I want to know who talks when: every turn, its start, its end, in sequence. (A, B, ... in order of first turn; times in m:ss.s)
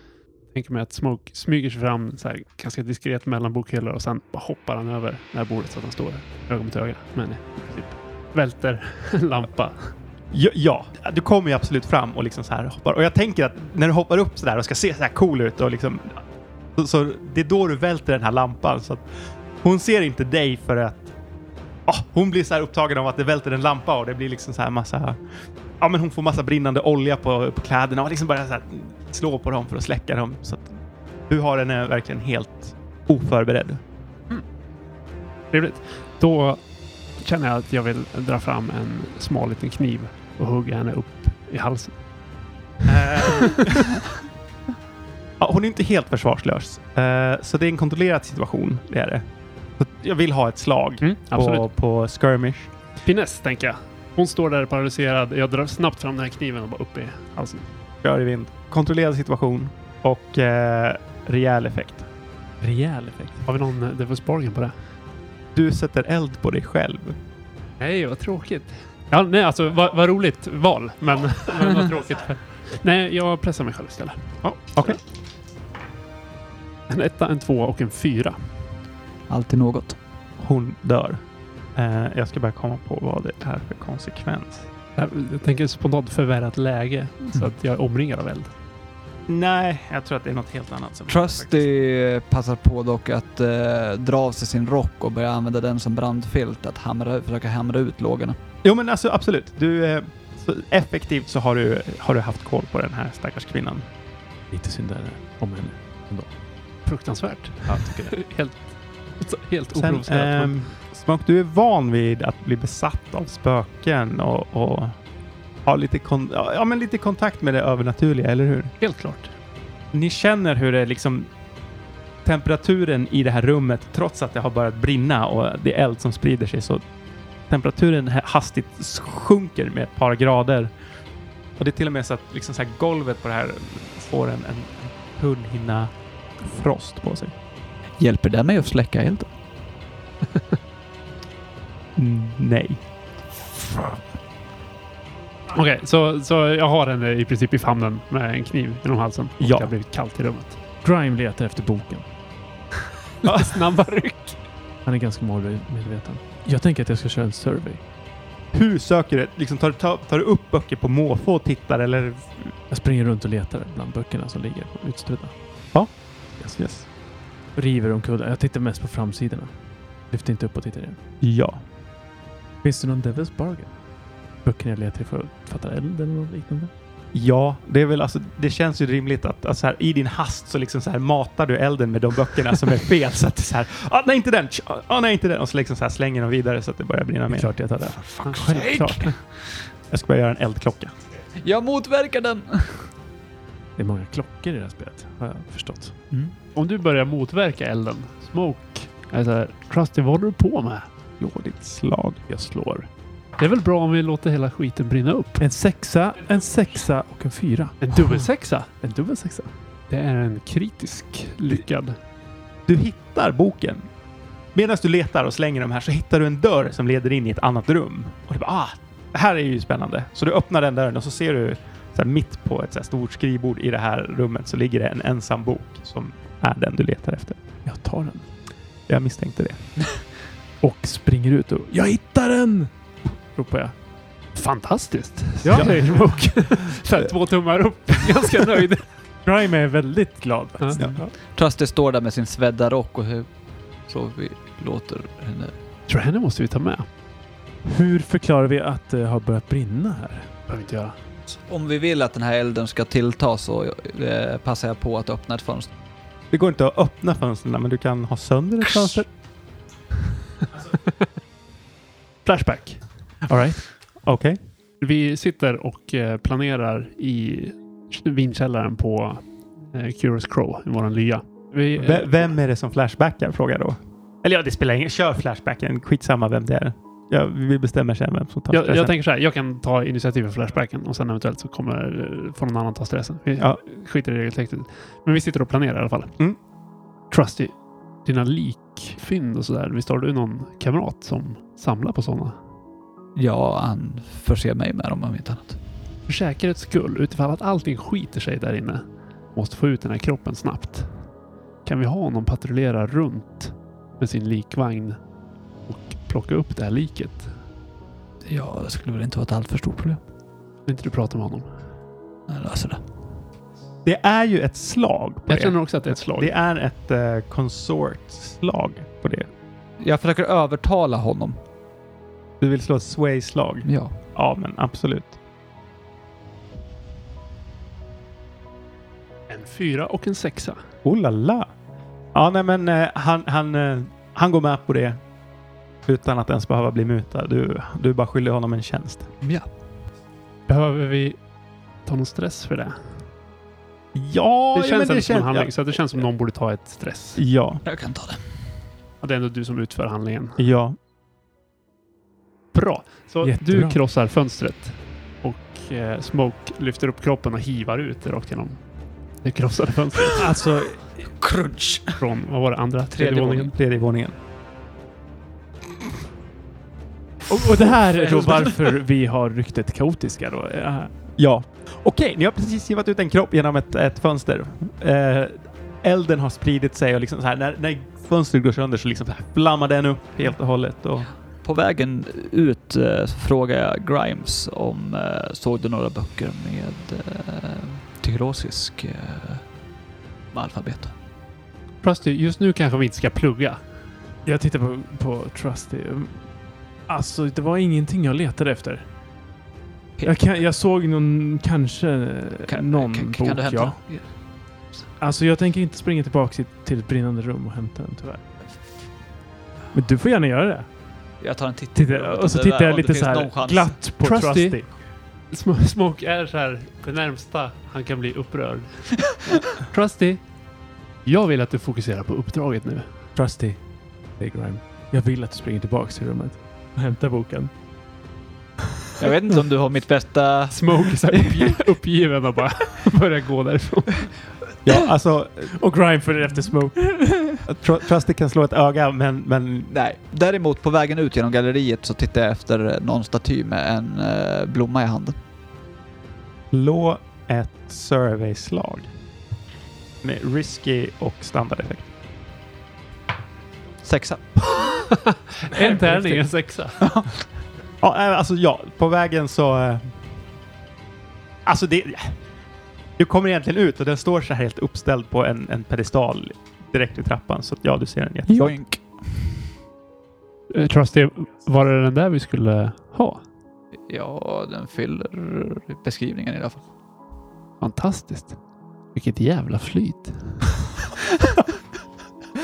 0:00.5-0:09.9 A
0:10.3-0:16.2 B
0:16.8-0:19.1 B
0:19.6-0:21.1 B
0:21.9-0:25.2 B
0:25.8-0:30.8 B
0:31.3-0:33.8 B
0:35.5-0:36.6 A
0:37.2-0:42.0 A
0:42.8-0:43.9 B
0:43.1-0:43.8 A
0:45.4-0:49.2 B
0:49.8-0:52.7 B
0:51.0-0:51.7 A
0:53.0-0:57.7 A
0:58.0-1:02.0 B
1:02.6-1:03.4 C
1:03.4-1:04.8 A
1:05.5-1:07.2 B
1:07.8-1:14.4 A
1:14.4-1:15.0 B
1:16.9-1:18.5 A
1:19.3-1:20.0 D
1:20.4-1:21.2 B
1:21.8-1:24.7 B
1:25.0-1:28.5 A
1:29.3-1:31.6 B
1:31.1-1:38.4 D
1:38.6-1:43.9 B
1:44.5-1:46.3 C
1:46.8-1:50.6 A
1:47.6-1:48.2 C
1:49.7-1:55.0 B
1:55.6-1:58.7 B
1:58.8-1:59.3 A
1:59.9-2:01.3 B
2:02.2-2:06.8 B
2:07.5-2:10.7 B
2:11.6-2:17.3 B
2:18.0-2:19.3 D
2:22.0-2:22.8 B
2:25.5-2:30.6 A
2:29.4-2:29.7 B
2:30.8-2:32.0 C
2:33.2-2:34.4 A
2:33.2-2:33.6 B
2:34.8-2:37.8 C
2:38.5-2:42.5 B
2:42.7-2:45.3 C
2:45.7-2:46.8 B
2:47.5-2:49.5 C
2:50.1-2:51.0 C
2:51.2-2:51.6 B
2:52.6-2:53.7 C
2:54.4-2:56.7 C
2:57.1-3:07.6 B
3:07.3-3:09.0 C
3:08.2-3:09.1 A
3:09.9-3:10.9 B
3:11.4-3:12.9 D
3:13.8-3:16.0 C
3:16.5-3:20.9 A
3:21.2-3:22.2 B
3:22.3-3:22.9 C
3:23.4-3:25.4 A
3:25.4-3:29.5 C
3:27.8-3:28.7 A
3:29.9-3:32.0 A
3:32.7-3:33.9 B
3:34.5-3:47.4 B
3:47.6-3:48.3 C
3:48.9-3:49.8 B
3:50.6-3:52.7 C
3:53.3-3:53.7 C
3:54.3-3:58.8 A
3:55.4-3:56.4 C
3:59.2-4:01.1 C
4:00.8-4:03.3 D
4:03.9-4:05.5 D
4:05.9-4:06.8 A
4:07.6-4:10.3 C
4:10.5-4:11.0 A
4:11.5-4:15.7 D
4:16.3-4:19.1 B
4:22.2-4:22.8 A
4:23.3-4:23.6 C
4:24.0-4:24.4 B
4:24.8-4:32.3 A
4:31.8-4:38.9 B
4:38.5-4:46.1 A
4:47.1-4:52.4 A
4:53.2-4:55.6 D
4:56.1-5:00.9 A
5:01.6-5:05.0 A
5:05.7-5:07.3 A
5:08.2-5:10.0 D
5:10.6-5:11.5 A
5:12.3-5:12.8 D
5:13.8-5:15.6 B
5:15.3-5:16.3 A
5:16.1-5:19.3 B
5:19.8-5:21.4 D
5:22.4-5:25.2 B
5:23.6-5:24.0 D
5:29.3-5:30.6 A
5:30.8-5:31.5 B
5:32.1-5:35.0 B
5:35.8-5:39.1 B
5:39.2-5:39.5 D
5:40.5-5:41.2 A
5:41.8-5:42.9 A
5:43.9-5:45.5 B
5:44.5-5:47.2 A
5:47.2-5:47.6 B
5:47.6-5:48.2 D
5:49.0-5:50.4 A
5:50.4-5:50.8 B
5:52.5-5:58.6 A
5:53.2-5:53.8 C
5:59.2-6:00.3 A
6:00.1-6:00.9 C
6:01.0-6:02.0 D
6:02.0-6:03.5 A
6:02.9-6:03.5 D
6:03.4-6:04.1 B
6:07.3-6:10.9 C
6:07.9-6:08.6 D
6:11.2-6:21.1 B
6:21.4-6:29.4 D
6:30.3-6:30.9 D
6:31.8-6:33.6 A
6:34.2-6:36.3 C
6:36.9-6:38.8 C
6:40.0-6:43.8 C
6:42.5-6:44.1 D
6:45.0-6:48.2 C
6:49.7-6:50.7 C
6:51.2-6:53.8 D
6:51.7-6:54.7 C
6:54.0-6:54.6 A
6:55.3-7:00.2 A
7:01.0-7:03.0 A
7:03.2-7:03.6 C
7:04.2-7:07.5 C
7:09.0-7:11.6 D
7:10.5-7:14.2 A
7:14.6-7:15.5 B
7:15.4-7:17.4 C
7:17.4-7:19.7 B
7:19.7-7:25.2 D
7:26.5-7:28.9 B
7:30.0-7:31.9 B
7:33.8-7:34.9 D
7:34.9-7:36.9 A
7:35.6-7:36.2 C
7:36.8-7:37.1 D
7:37.8-7:40.0 B
7:41.4-7:42.2 B
7:43.0-7:48.6 B
7:48.3-7:49.4 D
7:50.5-7:53.2 A
7:53.9-7:56.6 D
7:57.6-7:58.4 A
7:58.9-8:00.5 A